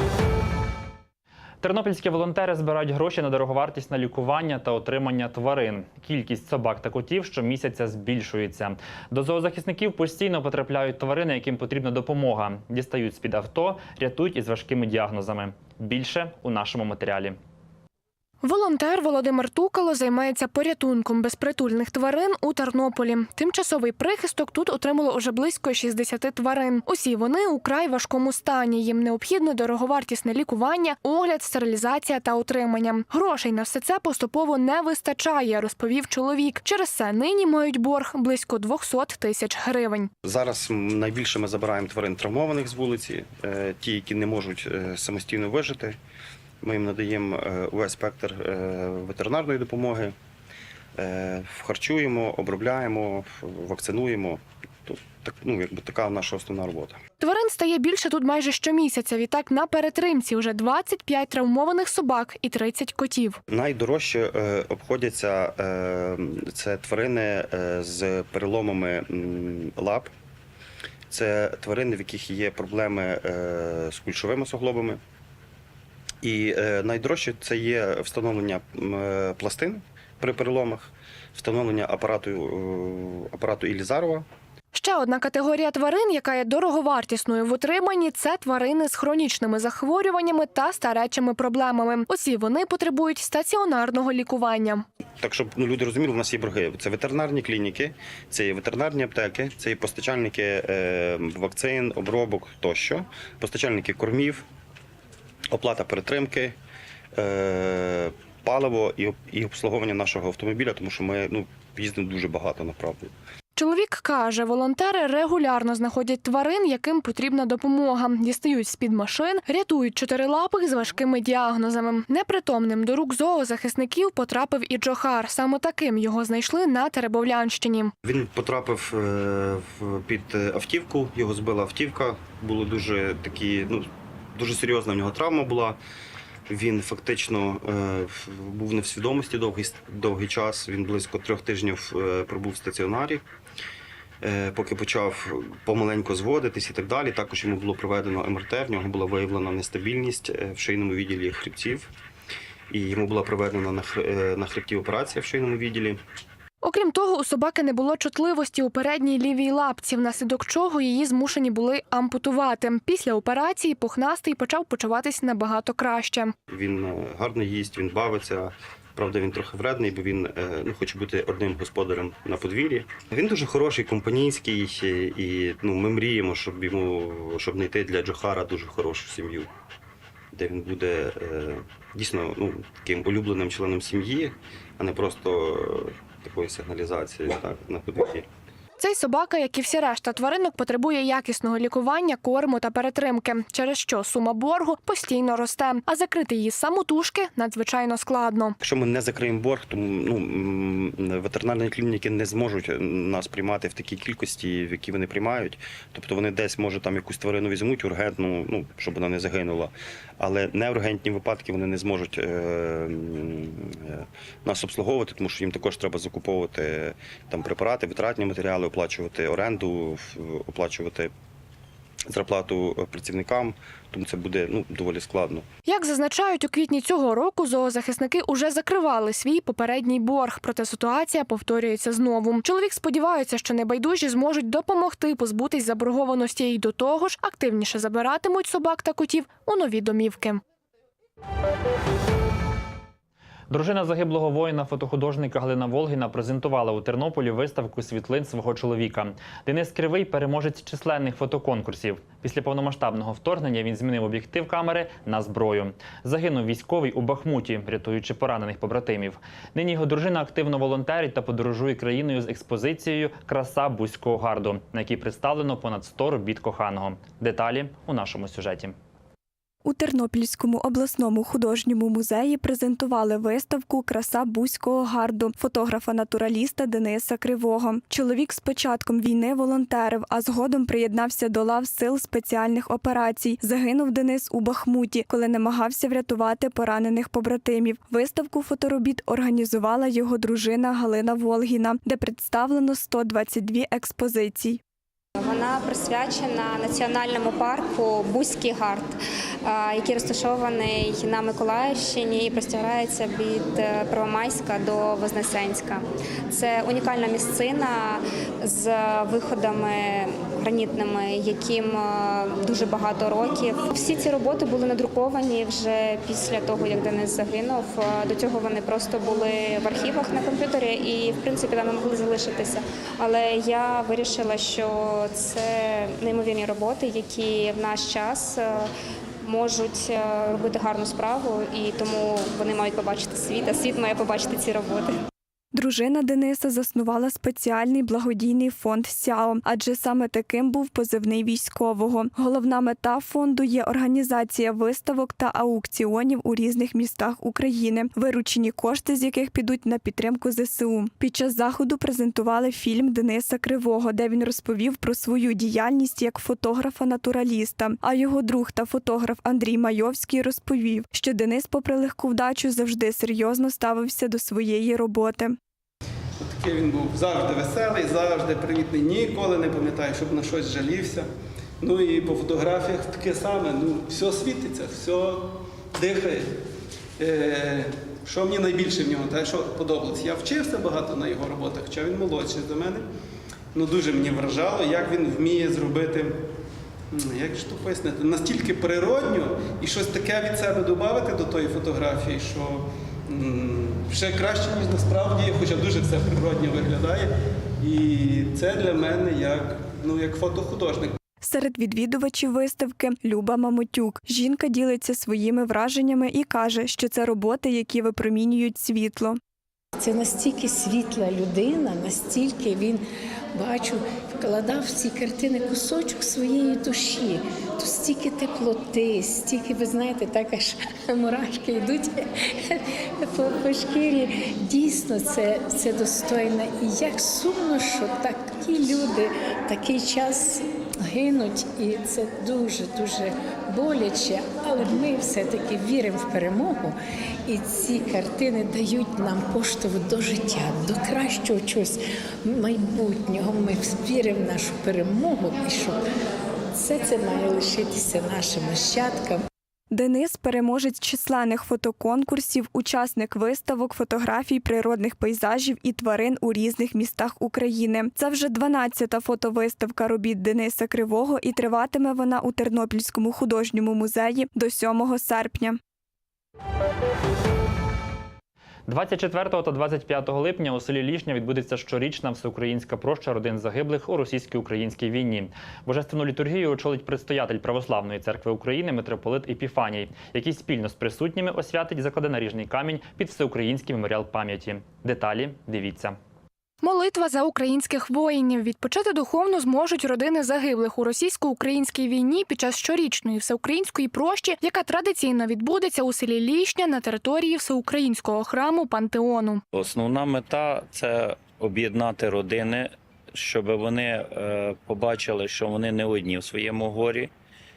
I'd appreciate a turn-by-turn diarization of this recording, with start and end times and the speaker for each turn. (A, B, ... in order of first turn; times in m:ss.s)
0:01.6-0:17.4 A
0:18.4-0:40.1 B
0:40.2-0:46.0 C
0:46.6-0:50.2 C
0:51.0-0:57.0 C
0:57.2-1:03.4 B
1:03.5-1:10.1 C
1:11.1-1:15.0 C
1:16.2-1:24.3 C
1:24.7-1:34.9 B
1:35.2-1:44.5 C
1:45.5-1:46.6 C
1:47.2-1:53.1 C
1:53.6-2:07.9 B
2:08.0-2:15.8 C
2:16.5-2:23.2 C
2:24.2-2:31.9 C
2:32.7-2:36.0 C
2:36.6-2:46.3 B
2:46.5-2:59.5 C
3:00.3-3:08.3 C
3:08.8-3:18.6 B
3:18.6-3:41.1 C
3:42.1-3:45.5 C
3:45.7-4:00.4 B
4:03.5-4:28.8 A
4:29.6-4:54.6 D
4:55.2-5:28.7 E
5:29.2-5:35.0 E
5:35.5-6:05.4 D
6:06.2-6:11.1 F
6:11.6-6:16.4 F
6:17.0-6:22.8 F
6:23.5-6:26.2 F
6:26.9-6:37.1 F
6:37.6-6:41.0 F
6:41.2-6:49.2 D
6:49.8-6:52.8 G
6:53.3-7:25.8 G
7:26.5-7:29.2 G
7:29.7-7:45.6 D
7:48.7-8:06.0 A
8:06.6-8:19.4 B
8:19.5-8:27.1 H